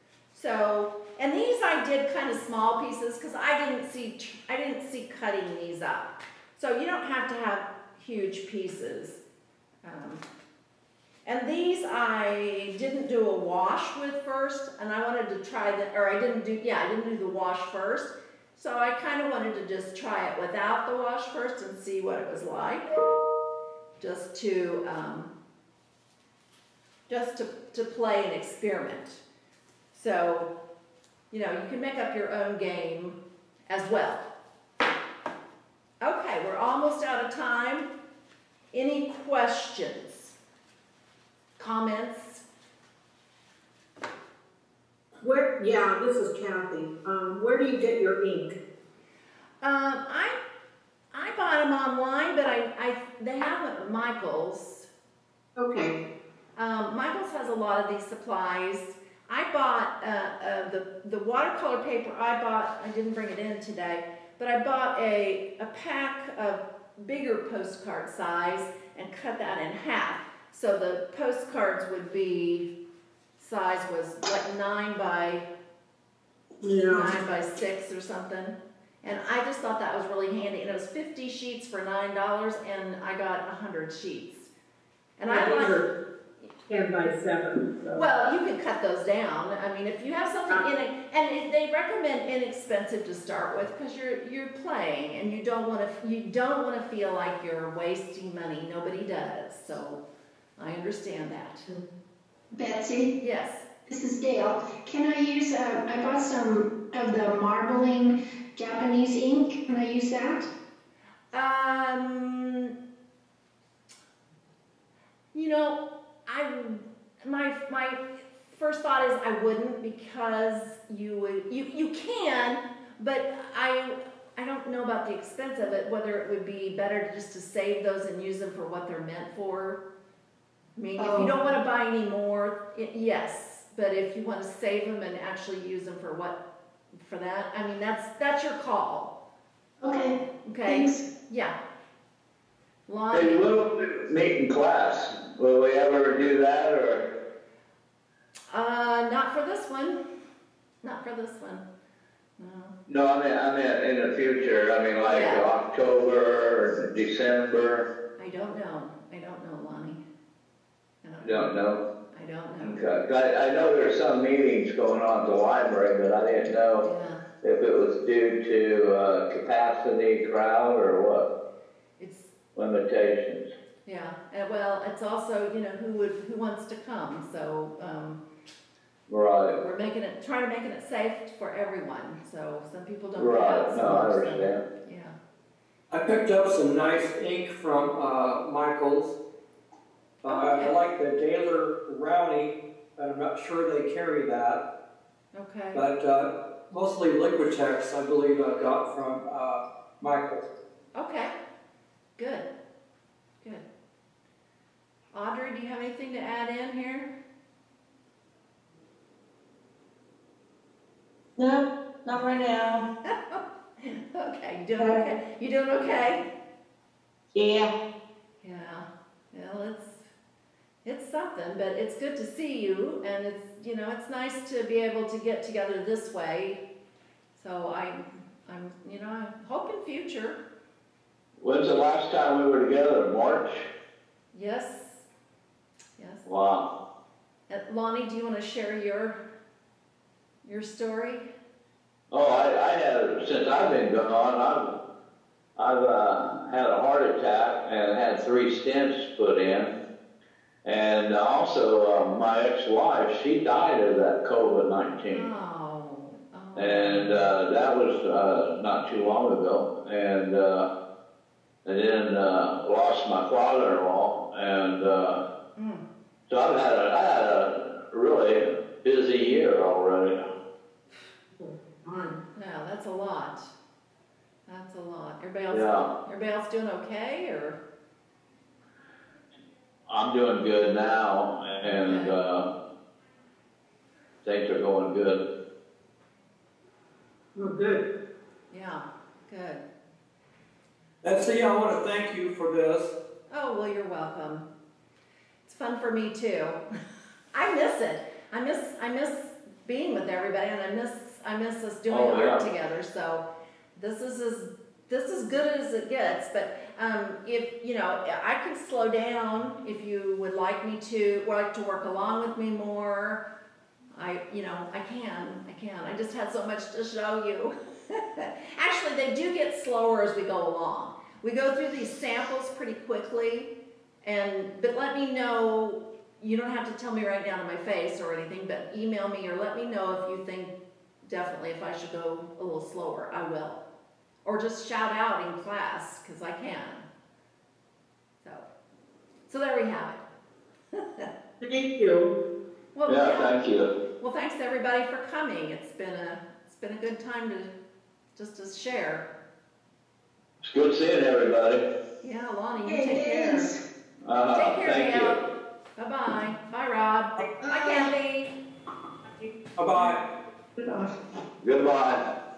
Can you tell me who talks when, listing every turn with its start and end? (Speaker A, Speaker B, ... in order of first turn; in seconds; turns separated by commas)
Speaker A: 0.3-9.2, Speaker A: 9.8-10.2, Speaker A: 11.3-22.9, Speaker A: 24.0-25.3, Speaker A: 27.1-29.2, Speaker A: 29.9-30.5, Speaker A: 31.3-33.2, Speaker A: 33.7-34.3, Speaker A: 36.0-37.9, Speaker A: 38.7-40.3, Speaker A: 41.6-42.4, Speaker B: 45.2-48.6, Speaker A: 49.6-50.4, Speaker A: 51.1-54.9, Speaker B: 55.6-56.0, Speaker A: 56.6-72.7, Speaker A: 73.4-75.5, Speaker B: 76.6-77.2, Speaker A: 76.9-84.5, Speaker A: 85.2-85.8, Speaker B: 85.3-85.9, Speaker B: 86.7-88.0, Speaker A: 87.9-100.0, Speaker A: 100.6-101.7, Speaker C: 102.5-103.2, Speaker A: 103.2-103.7, Speaker C: 103.9-110.5, Speaker A: 111.3-112.7, Speaker A: 115.3-129.8, Speaker A: 130.8-136.4, Speaker C: 131.0-131.3, Speaker A: 137.0-139.2, Speaker C: 139.8-141.1, Speaker A: 140.4-141.6, Speaker A: 142.9-143.5, Speaker D: 143.1-147.1, Speaker A: 148.5-150.0, Speaker A: 150.8-151.6, Speaker A: 152.4-152.8, Speaker D: 152.9-157.9, Speaker A: 155.1-155.4, Speaker A: 158.2-160.0, Speaker A: 161.0-161.6, Speaker D: 161.2-161.8, Speaker A: 162.1-162.8, Speaker D: 162.6-166.9, Speaker A: 166.8-167.2, Speaker D: 167.4-171.3, Speaker A: 172.0-172.3, Speaker D: 172.6-173.5, Speaker A: 173.9-178.2, Speaker D: 179.1-179.6, Speaker A: 179.6-185.2, Speaker D: 183.2-184.6, Speaker E: 185.9-189.2, Speaker E: 190.2-194.6, Speaker A: 190.3-190.8, Speaker A: 195.3-195.8, Speaker E: 195.7-200.4, Speaker A: 200.9-201.3, Speaker A: 202.2-202.5, Speaker A: 205.1-207.1, Speaker F: 211.4-212.9, Speaker A: 213.1-216.3, Speaker F: 214.8-215.1, Speaker F: 217.3-217.7, Speaker A: 218.4-220.1, Speaker A: 220.8-226.6, Speaker A: 227.4-230.4, Speaker D: 231.4-233.7, Speaker A: 234.3-235.0, Speaker A: 236.0-236.2, Speaker D: 236.3-236.7, Speaker A: 237.5-239.2, Speaker A: 240.4-241.3, Speaker D: 242.1-244.8, Speaker D: 245.6-249.7, Speaker D: 250.7-255.3, Speaker A: 255.1-257.3, Speaker D: 256.6-260.7, Speaker D: 261.6-265.2, Speaker A: 265.6-265.8, Speaker D: 266.3-270.3, Speaker B: 271.4-272.2, Speaker A: 272.4-273.5, Speaker A: 274.5-277.6, Speaker D: 275.5-275.9, Speaker D: 279.9-282.5, Speaker A: 281.8-282.1, Speaker D: 284.2-285.3, Speaker B: 287.4-287.9, Speaker A: 288.5-289.6, Speaker E: 291.0-292.9, Speaker A: 293.3-294.5, Speaker A: 295.4-296.6, Speaker A: 297.3-303.2, Speaker D: 301.9-302.4, Speaker A: 303.8-313.2, Speaker A: 313.9-323.5, Speaker A: 324.1-333.6, Speaker A: 334.2-336.9, Speaker A: 339.3-340.0, Speaker A: 340.7-341.1, Speaker B: 341.4-342.1, Speaker A: 342.8-343.5, Speaker D: 342.9-343.7, Speaker A: 344.0-347.5, Speaker A: 348.2-349.1, Speaker D: 350.4-351.6, Speaker A: 352.0-353.5, Speaker C: 352.6-353.6, Speaker D: 354.0-355.2, Speaker A: 354.3-355.2, Speaker A: 355.8-358.3, Speaker E: 359.6-360.0, Speaker C: 360.6-360.9, Speaker D: 361.4-362.1